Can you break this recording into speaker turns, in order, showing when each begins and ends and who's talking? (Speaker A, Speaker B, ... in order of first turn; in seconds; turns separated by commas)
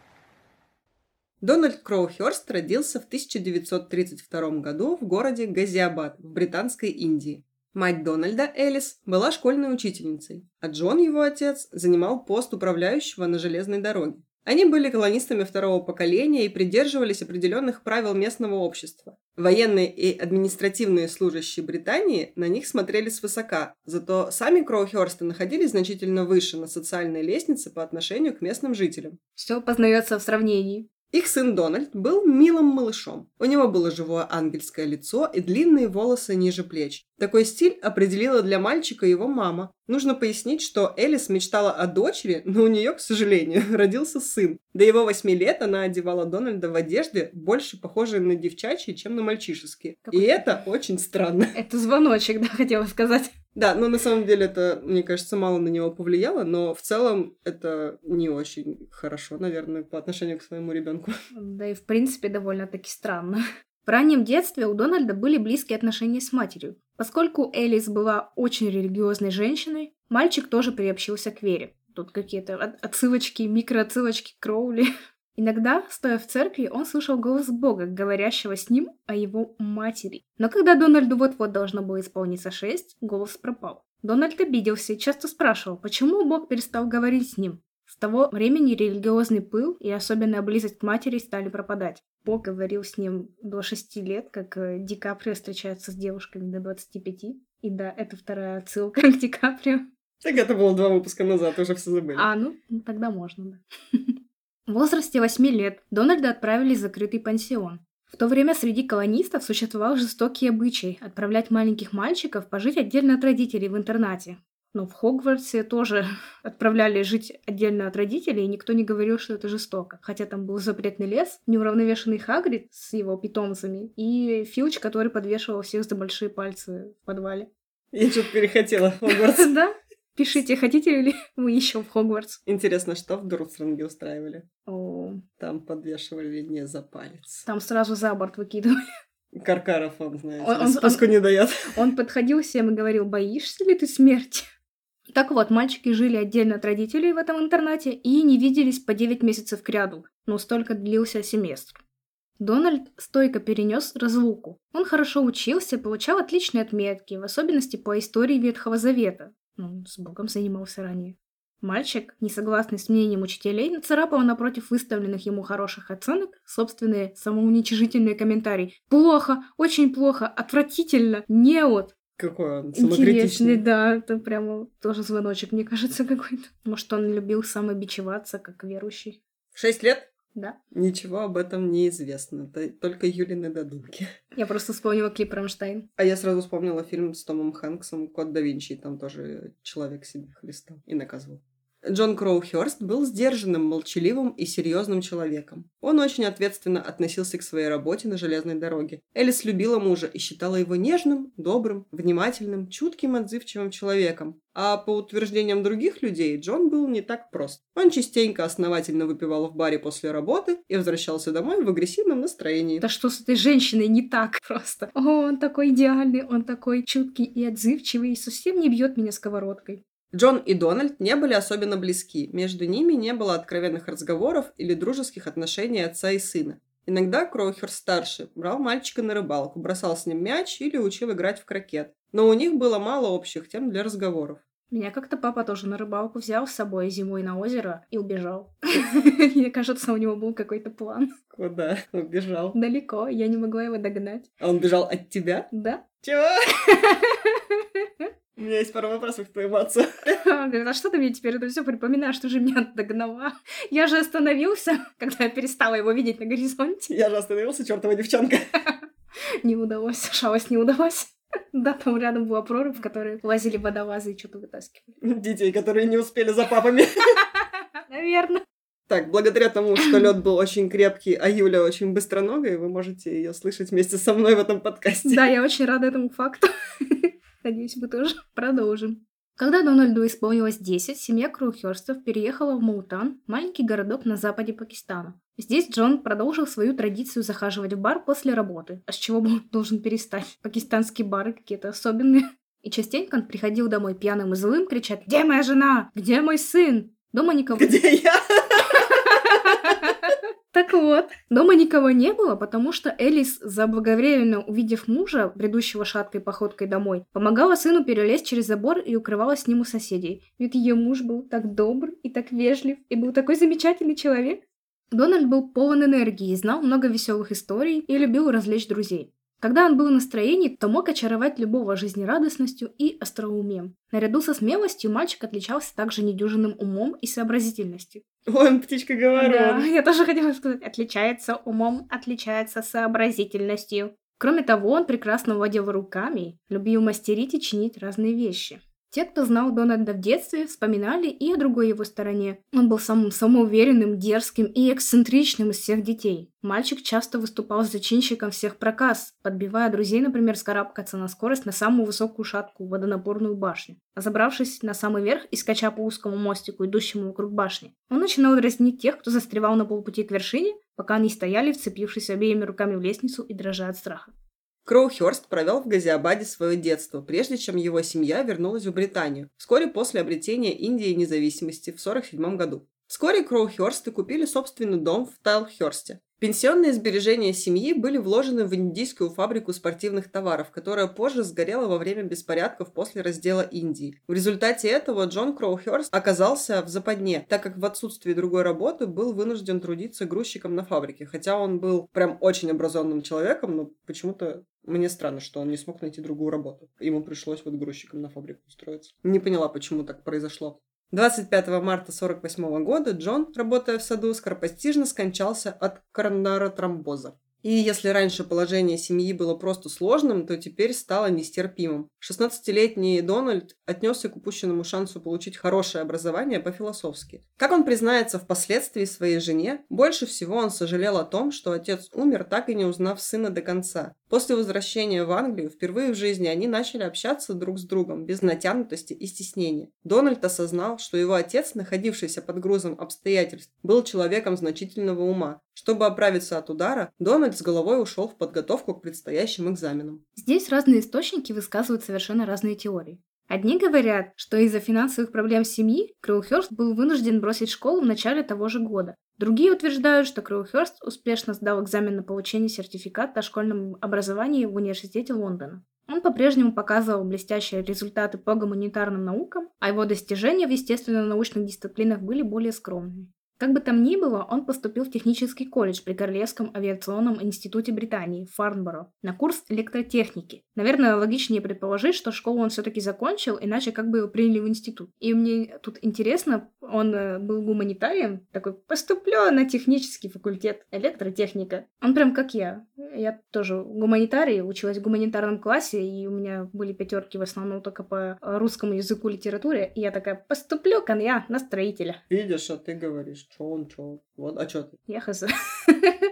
Speaker A: 1.4-29.2, Speaker B: 29.4-30.9, Speaker A: 31.1-51.6, Speaker B: 50.0-50.6, Speaker B: 51.5-53.3, Speaker A: 53.5-61.2, Speaker B: 61.3-99.9, Speaker A: 100.2-102.3, Speaker B: 102.2-127.5, Speaker A: 127.9-129.5, Speaker B: 129.1-132.4, Speaker A: 132.5-134.4, Speaker B: 134.7-135.2, Speaker A: 135.4-137.4, Speaker B: 137.5-138.8, Speaker A: 139.3-141.7, Speaker B: 140.4-141.1, Speaker B: 141.7-144.5, Speaker B: 145.1-151.8, Speaker B: 152.4-171.9, Speaker A: 172.2-173.6, Speaker B: 172.8-179.2, Speaker A: 179.6-180.1, Speaker A: 180.7-184.1, Speaker B: 184.3-185.9, Speaker A: 186.0-212.8, Speaker B: 212.8-219.8, Speaker A: 220.1-234.4, Speaker B: 234.7-241.1, Speaker A: 241.3-242.6, Speaker B: 242.5-244.3, Speaker A: 244.4-245.5, Speaker B: 245.5-245.9, Speaker A: 246.0-246.4, Speaker B: 246.6-248.1, Speaker A: 248.4-250.2, Speaker B: 250.1-256.9, Speaker A: 256.9-258.4, Speaker B: 259.4-265.0, Speaker A: 265.0-267.2, Speaker B: 267.4-268.4, Speaker A: 268.9-275.3, Speaker B: 275.1-297.8, Speaker A: 297.6-299.1, Speaker B: 298.7-328.0, Speaker A: 328.3-329.7, Speaker B: 329.2-364.1, Speaker A: 364.7-440.0, Speaker B: 440.2-492.0, Speaker A: 492.1-494.8, Speaker B: 494.9-496.0